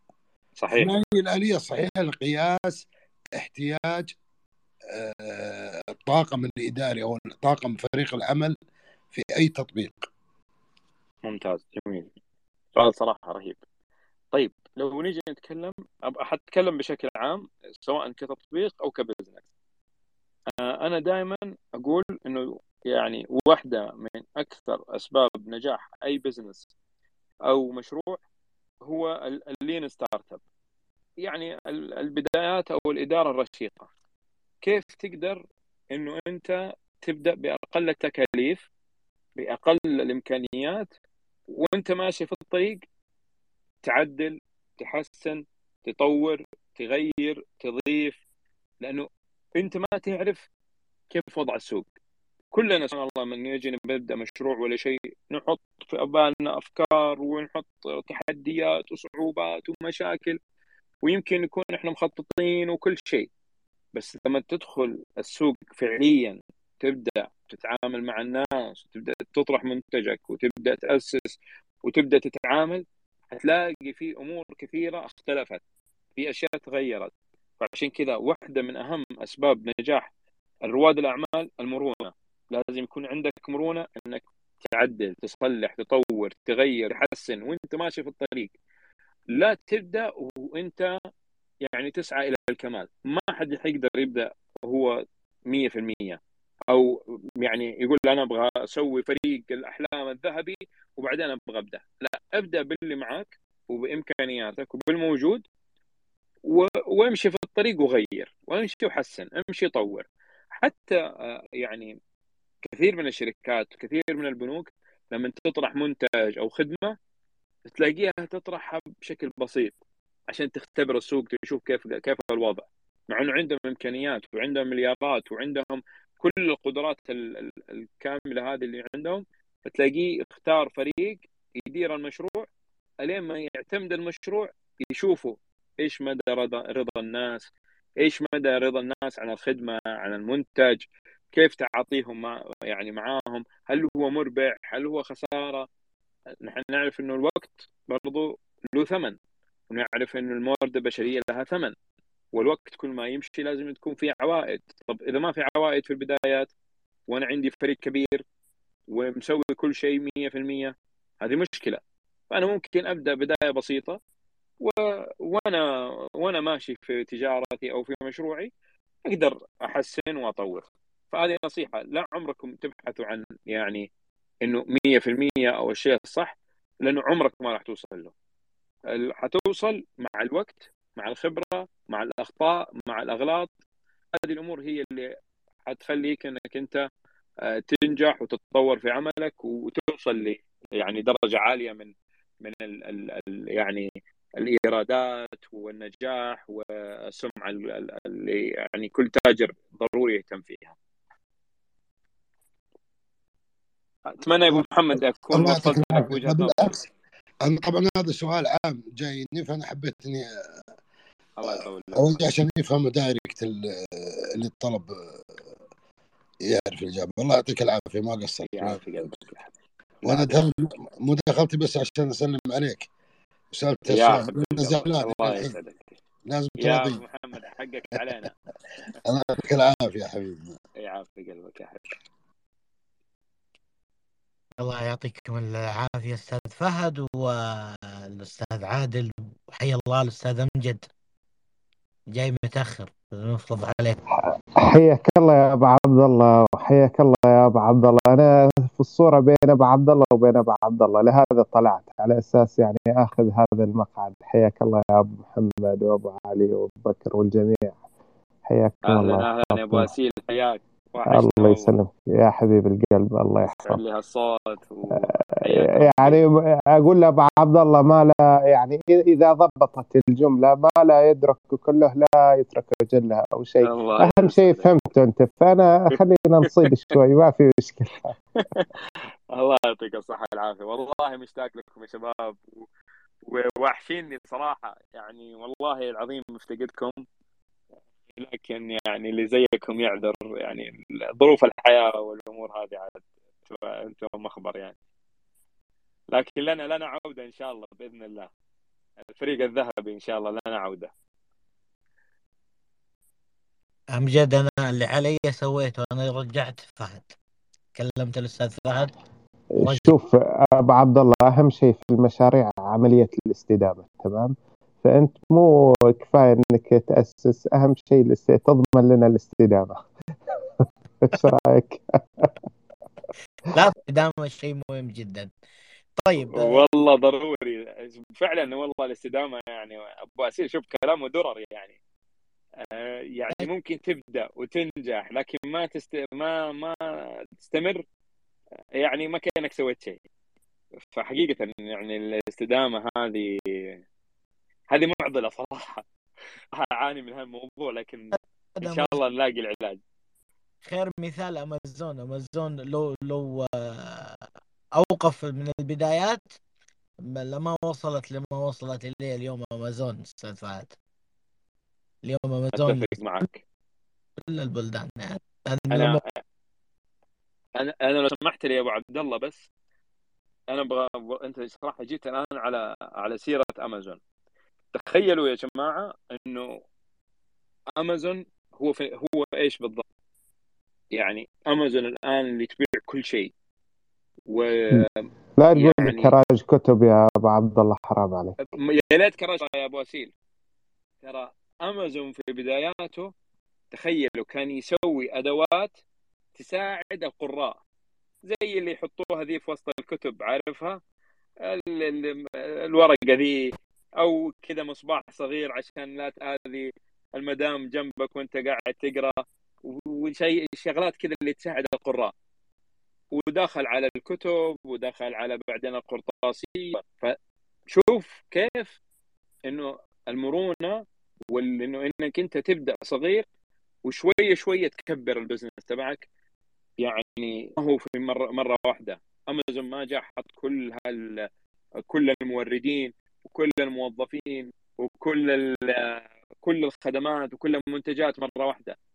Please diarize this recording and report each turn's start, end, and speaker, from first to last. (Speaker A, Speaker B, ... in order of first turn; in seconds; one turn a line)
Speaker A: 0.6-0.9
Speaker B: 0.7-2.9
Speaker B: 3.4-4.1
Speaker B: 4.9-8.5
Speaker B: 9.1-10.1
Speaker A: 11.2-12.1
Speaker A: 12.7-13.6
Speaker A: 14.3-19.4
Speaker A: 20.5-26.7
Speaker A: 27.5-28.2
Speaker A: 28.9-30.4
Speaker A: 31.2-33.9
Speaker A: 34.6-38.6
Speaker A: 39.4-40.9
Speaker A: 41.5-42.8
Speaker A: 43.8-48.2
Speaker A: 48.8-50.4
Speaker A: 51.1-51.9
Speaker A: 52.5-60.4
Speaker A: 61.0-63.3
Speaker A: 63.9-71.3
Speaker A: 71.8-75.6
Speaker A: 76.2-80.1
Speaker A: 80.7-88.5
Speaker A: 89.3-90.9
Speaker A: 91.7-96.2
Speaker A: 96.7-105.4
Speaker A: 106.5-110.0
Speaker A: 110.6-111.9
Speaker A: 112.7-117.0
Speaker A: 117.7-119.7
Speaker A: 120.3-132.5
Speaker A: 133.0-137.5
Speaker A: 138.0-145.7
Speaker A: 146.4-149.2
Speaker A: 149.7-151.7
Speaker A: 152.3-156.5
Speaker A: 157.1-158.2
Speaker A: 158.9-164.0
Speaker A: 164.6-165.7
Speaker A: 166.2-168.5
Speaker A: 169.1-173.9
Speaker A: 174.4-178.1
Speaker A: 178.9-183.5
Speaker A: 184.2-185.1
Speaker A: 185.7-186.8
Speaker A: 187.4-193.9
Speaker A: 194.4-200.7
Speaker A: 204.1-206.6
Speaker B: 205.3-206.8
Speaker B: 207.4-210.3
Speaker A: 211.4-212.2
Speaker B: 211.5-214.9
Speaker B: 216.5-218.8
Speaker A: 218.5-219.5
Speaker B: 220.0-222.9
Speaker B: 223.5-225.5
Speaker A: 223.9-225.9
Speaker B: 226.3-227.0
Speaker A: 226.6-228.3
Speaker B: 229.0-230.5
Speaker A: 230.8-231.9
Speaker C: 234.6-240.9
Speaker C: 242.1-244.0
Speaker D: 244.1-257.8
Speaker D: 258.5-259.9
Speaker A: 258.8-261.7
Speaker D: 261.1-263.8
Speaker A: 263.5-266.2
Speaker D: 264.9-278.1
Speaker A: 273.6-274.7
Speaker A: 278.4-278.7
Speaker A: 279.3-282.7
Speaker A: 283.2-287.0
Speaker A: 288.1-294.8
Speaker A: 296.1-298.3
Speaker A: 299.1-300.9
Speaker C: 303.9-307.1
Speaker C: 307.7-308.9
Speaker D: 309.5-319.8
Speaker C: 309.6-309.9
Speaker D: 321.0-322.4
Speaker C: 323.4-325.3
Speaker C: 326.0-326.6
Speaker A: 326.2-331.8
Speaker A: 332.7-336.8
Speaker A: 337.4-337.8
Speaker A: 338.8-340.0
Speaker A: 340.9-343.3
Speaker A: 344.7-345.8
Speaker A: 346.5-349.8
Speaker C: 348.6-349.0
Speaker C: 350.6-354.2
Speaker C: 354.8-356.3
Speaker C: 357.0-360.7
Speaker C: 362.0-363.3
Speaker A: 362.5-363.4
Speaker C: 364.2-366.0
Speaker A: 365.7-366.1
Speaker A: 367.6-369.4
Speaker A: 370.5-374.0
Speaker A: 374.7-376.6
Speaker A: 377.8-379.8
Speaker A: 380.9-383.3
Speaker A: 384.3-386.1
Speaker D: 385.4-388.3
Speaker A: 388.4-390.1
Speaker A: 391.0-393.1
Speaker A: 393.7-395.7
Speaker A: 396.4-397.6
Speaker A: 398.3-400.8
Speaker A: 401.4-412.1
Speaker A: 413.1-417.2
Speaker A: 417.7-418.8
Speaker A: 419.5-423.2
Speaker A: 423.9-426.0
Speaker A: 426.8-431.3
Speaker A: 431.9-438.8